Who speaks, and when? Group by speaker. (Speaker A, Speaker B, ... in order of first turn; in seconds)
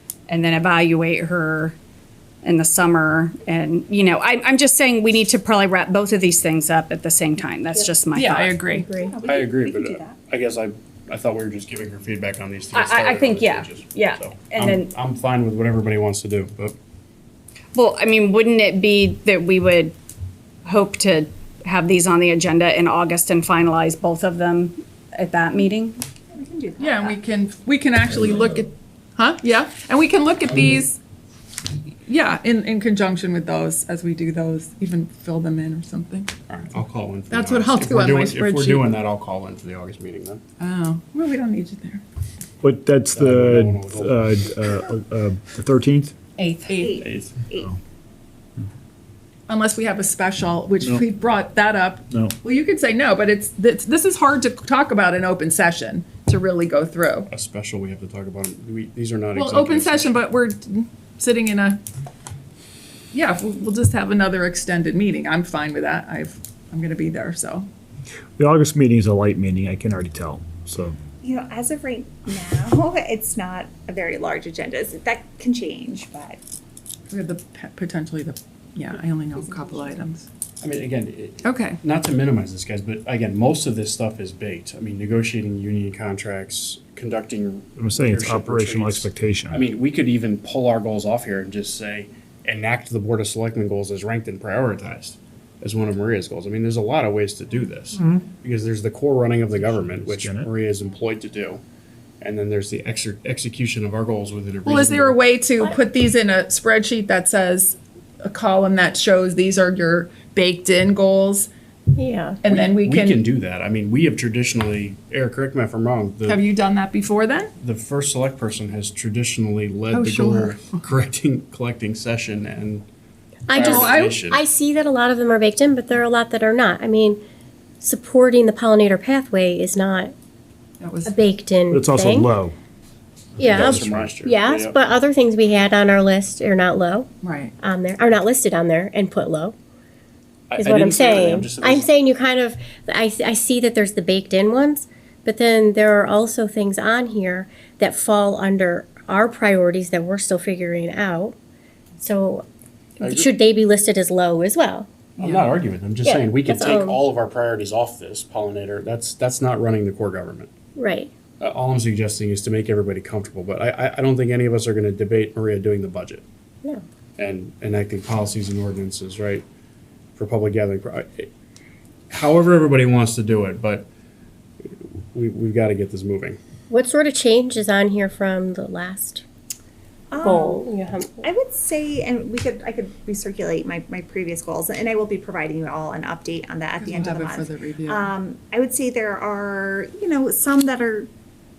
Speaker A: 0.3-1.8, 2.4-8.6, 12.7-14.9, 17.7-19.9, 20.6-26.0, 46.4-46.7
Speaker B: 8.1-8.9, 26.8-31.0, 32.1-36.3, 37.3-39.0, 40.6-42.0, 46.7-47.0, 49.5-57.3, 59.4-61.8, 63.1-67.7, 77.1-80.3, 81.4-81.8, 104.7-111.5, 112.4-113.2, 116.3-117.5, 119.9-120.8, 123.6-124.2, 130.8-131.2, 137.2-137.5, 186.8-188.1
Speaker C: 8.6-9.1, 112.0-112.4, 123.5-127.2, 127.8-130.1, 131.1-132.3, 133.4-139.6, 140.6-151.4, 152.0-152.4, 153.0-154.9, 156.0-157.0, 160.8-161.1, 176.7-179.2, 180.2-181.3
Speaker D: 8.9-10.2, 26.3-27.2, 46.8-47.7, 71.2-76.4, 79.4-80.0, 180.1-180.7, 181.2-191.1
Speaker E: 9.3-16.8, 36.5-40.4, 43.1-44.4, 47.0-47.4, 57.3-60.2, 80.6-101.6, 102.2-105.2, 112.5-116.4, 117.6-122.9, 123.5-124.4, 133.4-134.8, 140.5-141.9, 153.0-153.3, 155.2-160.5, 161.4-166.2, 167.2-169.5, 170.2-171.3, 172.1-173.9, 174.8-176.4
Speaker F: 42.6-46.1, 68.4-71.0, 87.8-89.7, 99.6-100.5, 131.7-132.6, 133.5-134.2